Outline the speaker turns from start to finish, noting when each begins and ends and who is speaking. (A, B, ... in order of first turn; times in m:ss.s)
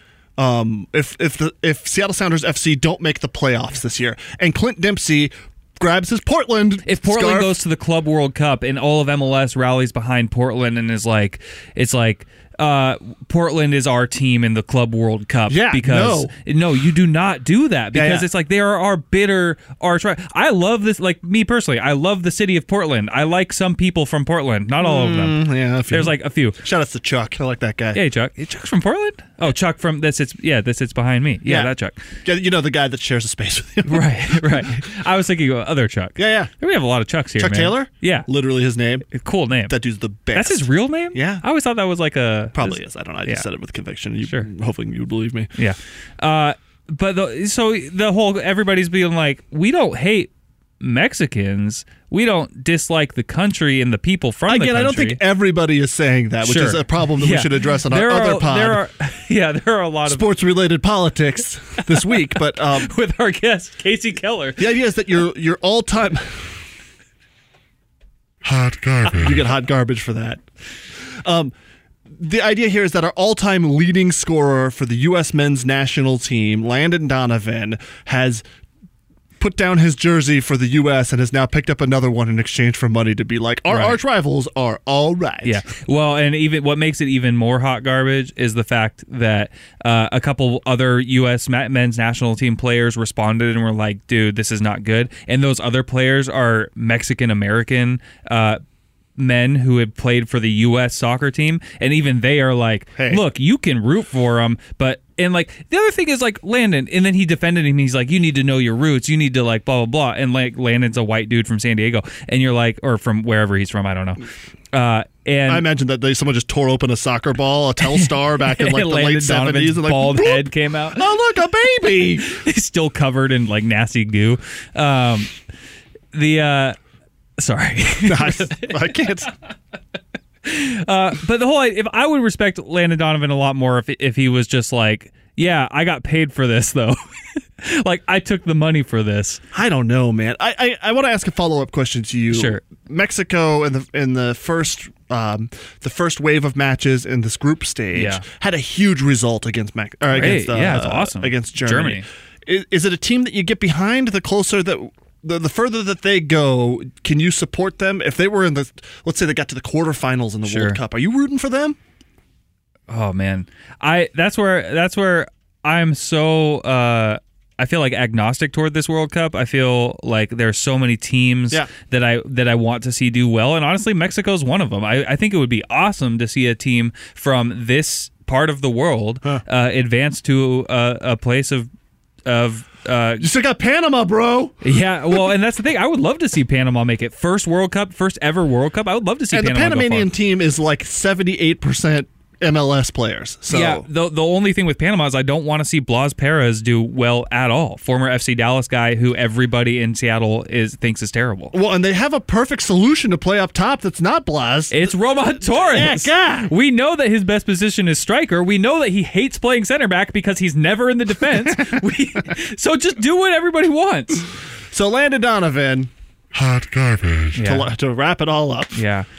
0:00.4-0:07.6 A
0:06.9-0:26.6 B
0:15.5-0:16.3 A
0:17.9-0:18.3 A
0:24.8-0:28.0 A
0:28.0-0:32.0 B
0:31.5-0:31.7 A
0:32.2-0:34.8 A
0:33.9-0:38.3 B
0:36.2-0:36.5 A
0:37.4-0:39.1 A
0:39.1-0:39.7 B
0:39.7-0:41.4 A
0:40.4-0:43.4 B
0:42.6-0:45.5 A
0:45.6-0:55.2 B
0:54.5-0:58.8 A
0:56.4-1:00.3 B
1:00.1-1:02.9 A
1:01.9-1:04.6 B
1:04.6-1:06.6 A
1:08.5-1:10.4 A
1:11.2-1:11.5 A
1:12.2-1:18.4 A
1:19.4-1:25.6 A
1:23.7-1:24.0 B
1:25.4-1:38.6 B
1:39.2-1:55.6 B
1:43.0-1:43.2 A
1:55.5-2:02.3 A
1:58.0-2:01.0 B
2:02.2-2:05.3 B
2:06.1-2:06.8 B
2:07.4-2:09.3 B
2:08.1-2:09.3 A
2:10.4-2:19.4 B
2:19.5-2:41.8 A
2:22.3-2:22.6 B
2:27.9-2:28.2 B
2:30.1-2:32.0 B
2:40.4-2:40.8 B
2:42.9-3:01.7 B
3:02.2-3:03.3 B
3:03.2-3:04.6 A
3:04.6-3:10.1 B
3:09.3-3:13.8 A
3:13.5-3:21.5 B
3:21.5-3:24.8 A
3:24.7-3:34.3 B
3:25.6-3:26.5 A
3:34.7-3:38.8 A
3:37.4-3:37.7 B
3:38.8-3:39.1 B